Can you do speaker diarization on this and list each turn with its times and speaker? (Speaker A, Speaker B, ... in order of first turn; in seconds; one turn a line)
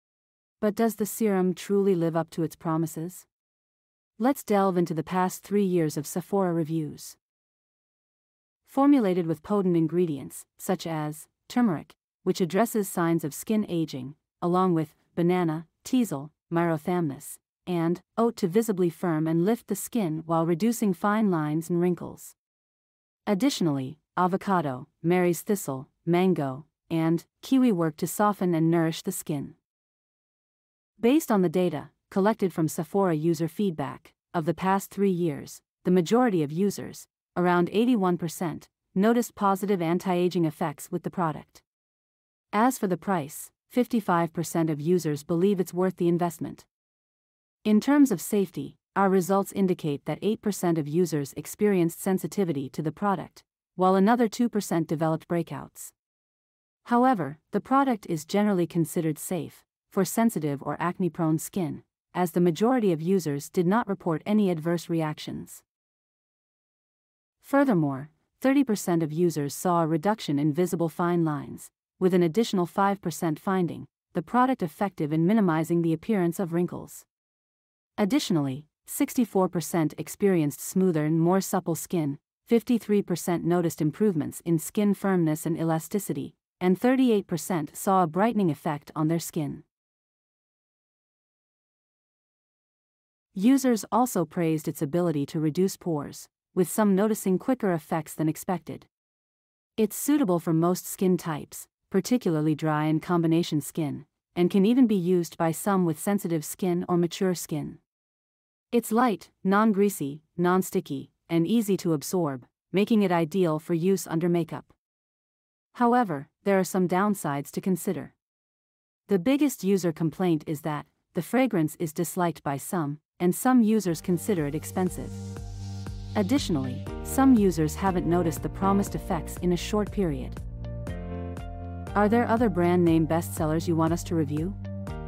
Speaker A: 0.6-3.3
Speaker A: 4.2-7.2
Speaker A: 8.6-22.4
Speaker A: 23.3-29.6
Speaker A: 31.0-41.6
Speaker A: 42.5-46.7
Speaker A: 47.6-55.9
Speaker A: 56.8-65.6
Speaker A: 67.4-77.1
Speaker A: 78.0-89.6
Speaker A: 93.3-98.9
Speaker A: 99.8-107.8
Speaker A: 108.7-114.7
Speaker A: 115.7-118.2
Speaker A: 119.1-125.2
Speaker A: 126.1-130.4
Speaker A: 131.9-134.6